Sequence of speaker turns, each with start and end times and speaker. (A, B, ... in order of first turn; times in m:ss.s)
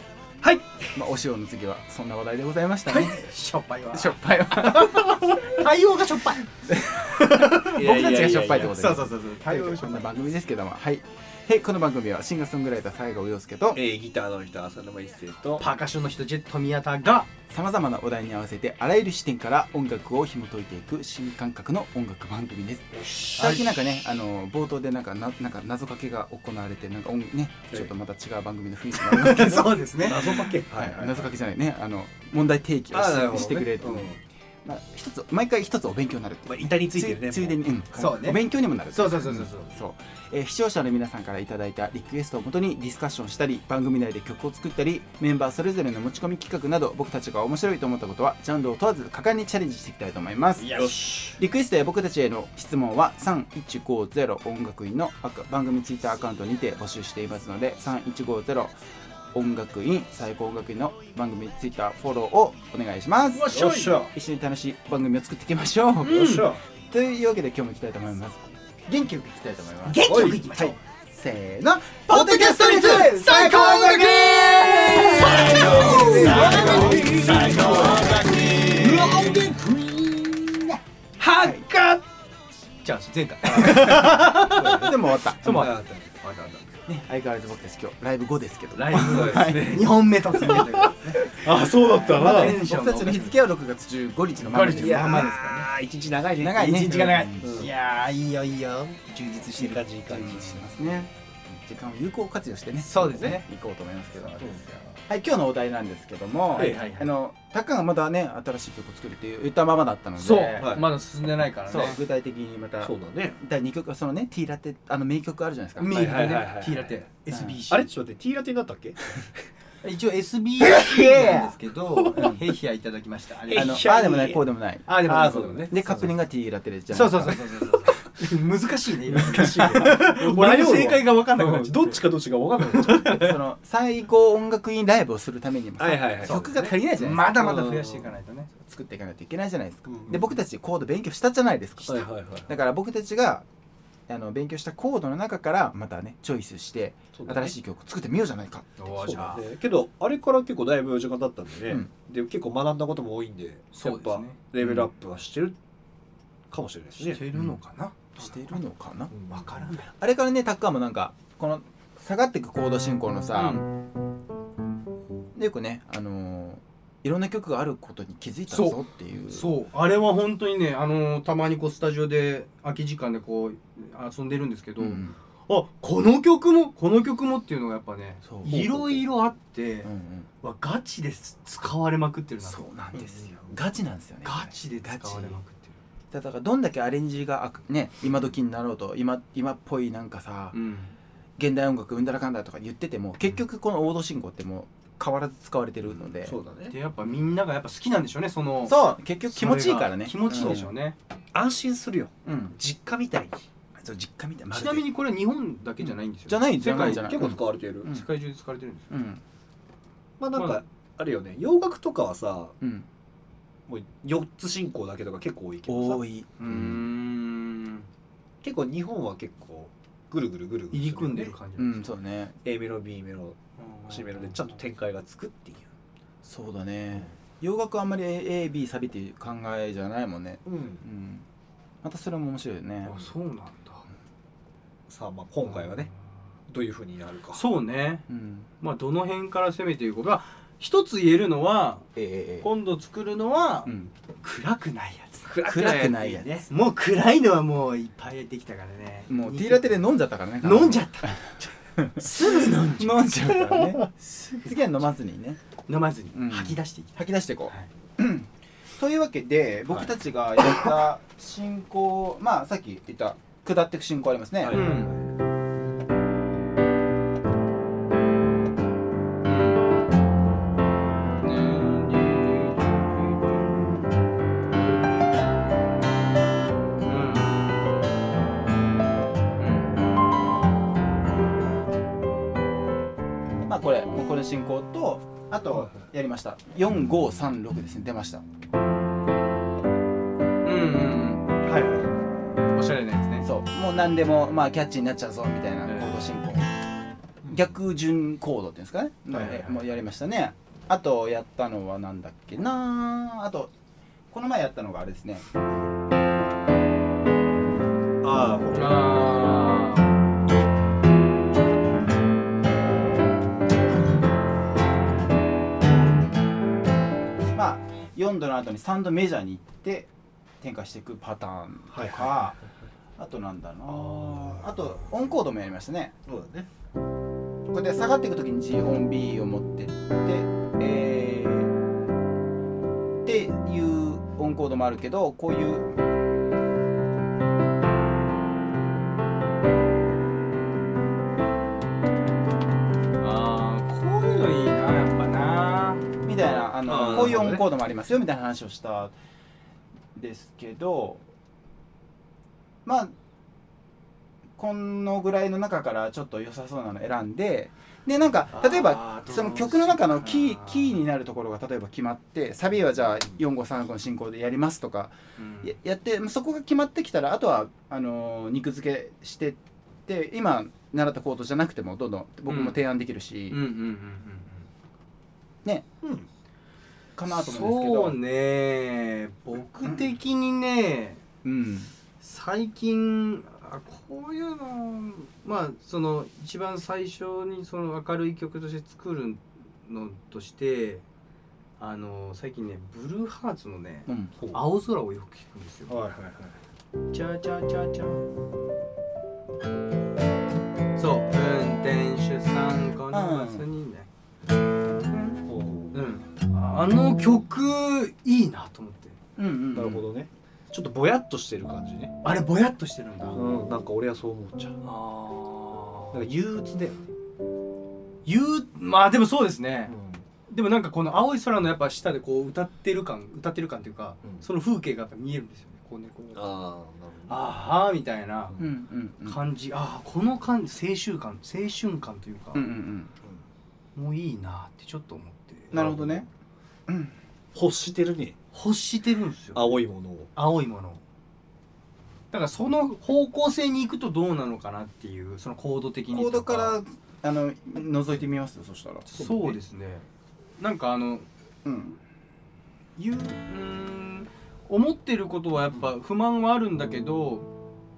0:00.4-0:00.9 A
0:00.9-0:03.2 B
0:02.9-0:06.5 C
0:03.9-0:05.4 B
0:06.7-0:13.8 B
0:07.2-0:07.7 C
0:07.6-0:09.0 A
0:08.5-0:10.1 C
0:13.7-0:15.7 A
0:15.6-0:17.3 C
0:17.5-0:29.8 B
0:22.9-0:23.4 A
0:23.3-0:23.6 C
0:29.0-0:30.5 C
0:29.5-0:31.3 A
0:30.7-0:58.8 B
0:32.9-0:34.2 A
0:36.5-0:37.7 A
0:37.9-0:39.7 C
0:50.6-0:51.4 A
0:50.6-0:51.4 C
0:59.3-1:06.3 B
1:03.3-1:04.0 C
1:03.5-1:04.1 A
1:06.0-1:06.5 C
1:06.1-1:06.6 A
1:06.9-1:19.5 B
1:09.8-1:10.8 C
1:10.0-1:10.4 A
1:12.1-1:20.8 C
1:14.5-1:19.5 A
1:21.2-1:22.0 A
1:21.4-1:21.7 B
1:22.8-1:26.8 C
1:23.4-1:26.1 A
1:24.7-1:25.7 B
1:26.9-1:31.3 B
1:28.8-1:33.4 C
1:28.9-1:32.6 A
1:32.1-1:35.6 B
1:34.5-1:35.6 C
1:34.7-1:37.7 A
1:36.4-1:37.7 B
1:36.5-1:39.8 C
1:39.4-1:40.7 A
1:40.1-1:50.7 B
1:42.8-1:43.4 C
1:46.6-1:47.1 C
1:46.6-1:47.0 A
1:50.2-1:52.0 C
1:50.6-1:50.9 A
1:51.7-1:56.0 B
1:52.8-1:53.4 A
1:55.8-1:57.9 C
1:55.9-1:57.0 A
1:57.3-1:57.6 B
1:57.7-1:59.3 A
1:59.8-2:03.9 C
2:00.6-2:02.3 A
2:02.2-2:02.4 B
2:03.4-2:06.2 A
2:03.5-2:05.0 B
2:04.9-2:05.7 C
2:05.7-2:07.4 B
2:06.9-2:12.0 C
2:09.1-2:13.3 A
2:09.4-2:09.9 B
2:12.7-2:13.4 C
2:13.1-2:17.6 B
2:15.8-2:16.5 A
2:16.2-2:18.5 C
2:17.3-2:18.1 A
2:18.6-2:23.4 B
2:19.9-2:20.3 A
2:21.8-2:22.5 A
2:24.1-2:28.7 B
2:27.1-2:27.5 A
2:28.8-2:29.4 C
2:29.0-2:35.6 A
2:33.7-2:34.4 C
2:34.6-2:34.9 B
2:36.5-2:37.2 A
2:37.0-2:38.6 C
2:38.2-2:39.1 B
2:39.1-2:39.5 A
2:39.3-2:39.9 C
2:40.0-2:43.6 B
2:43.3-2:43.6 C
2:45.4-2:49.5 B
2:48.5-2:59.9 C
2:54.8-2:55.2 B
2:58.2-2:59.0 B
2:59.8-3:00.3 B
3:00.4-3:02.6 C
3:02.5-3:05.4 B
3:03.0-3:03.6 A
3:04.2-3:05.8 C
3:06.1-3:10.6 B
3:10.5-3:11.0 C
3:11.4-3:16.4 B
3:16.2-3:16.7 A
3:16.7-3:21.0 C
3:18.7-3:20.6 B
3:20.3-3:20.7 A
3:21.3-3:23.5 A
3:22.2-3:22.6 B
3:23.8-3:24.8 B
3:24.5-3:27.1 C
3:25.8-3:28.1 B
3:26.7-3:27.9 A
3:27.9-3:28.9 C
3:28.9-3:29.2 B
3:30.2-3:32.6 A
3:30.4-3:30.6 C
3:32.6-3:32.9 B
3:33.7-3:36.0 A
3:35.7-3:36.9 B
3:36.4-3:37.9 C
3:38.4-3:41.4 A
3:40.7-3:41.9 C
3:41.6-3:42.4 B
3:42.4-3:45.7 A
3:43.6-3:44.5 C
3:46.2-3:51.3 B
3:50.5-3:50.8 A
3:51.8-3:53.1 B
3:52.8-3:53.9 C
3:54.9-3:55.9 A
3:55.4-3:55.9 C
3:56.5-3:57.4 A
3:57.3-3:58.1 C
3:58.1-3:58.5 B
3:58.6-4:01.9 C
4:02.0-4:02.5 B
4:02.4-4:05.3 C
4:03.7-4:03.9 B
4:05.3-4:06.5 A
4:05.4-4:06.4 B
4:06.5-4:09.8 C
4:09.1-4:13.9 B
4:10.4-4:14.8 C
4:14.4-4:15.4 B
4:15.7-4:17.0 C
4:16.1-4:24.6 B
4:24.4-4:25.1 A
4:24.5-4:25.0 C
4:29.2-4:29.6 C
4:31.2-4:33.9 C
4:34.5-4:35.2 C
4:36.8-4:37.7 C
4:39.4-4:39.8 C
4:43.5-4:48.2 B
4:50.4-4:51.3 C
4:51.4-4:52.0 A
4:52.5-4:53.3 C
4:53.2-4:56.5 B
4:55.7-4:56.0 C
4:57.3-5:03.5 B
4:59.1-4:59.5 C
4:59.1-4:59.5 A
5:04.1-5:05.3 B
5:08.0-5:09.5 A
5:08.5-5:10.0 C
5:17.3-5:19.9 B
5:20.4-5:22.4 B
5:21.7-5:22.2 A
5:23.0-5:25.9 B
5:23.9-5:24.4 A
5:26.1-5:26.5 A
5:27.5-5:31.5 B
5:33.0-5:35.7 B
5:43.0-5:45.9 C
5:46.0-5:49.0 B
5:46.6-5:47.5 A
5:49.9-5:51.0 B
5:52.6-5:52.9 B
5:54.4-6:13.4 B
5:58.3-6:00.8 C
6:05.2-6:05.6 C
6:12.3-6:12.6 C
6:13.3-6:14.5 C
6:15.8-6:16.1 A
6:17.0-6:18.0 B
6:17.1-6:21.0 C
6:19.6-6:19.9 B
6:21.2-6:21.7 B
6:22.0-6:30.8 C
6:31.6-6:35.8 C
6:33.9-6:34.1 B
6:34.2-6:34.4 A
6:35.7-6:36.4 A
6:36.9-6:38.0 C
6:40.8-6:43.9 C
6:42.9-6:43.5 B
6:44.9-6:49.0 C
6:45.3-6:45.8 A
6:49.2-6:49.9 B
6:49.5-6:52.0 A
6:52.0-6:53.2 C
6:53.2-6:54.6 A
6:54.6-6:56.0 C
6:55.9-6:56.8 A
6:58.1-6:59.7 C
6:59.7-7:00.0 A
7:00.3-7:06.4 C
7:06.2-7:07.3 A
7:07.1-7:08.4 C
7:08.4-7:09.2 B
7:09.0-7:12.4 C
7:12.4-7:12.9 B
7:13.8-7:15.6 C
7:15.5-7:16.1 A
7:15.5-7:16.1 B
7:16.7-7:17.0 B
7:17.3-7:18.2 A
7:18.3-7:19.6 C
7:19.3-7:20.1 A
7:20.2-7:20.8 C
7:22.1-7:26.6 C
7:25.9-7:28.9 B
7:28.9-7:29.9 C
7:29.0-7:29.4 A
7:30.4-7:31.1 C
7:31.4-7:31.8 B
7:32.8-7:37.3 C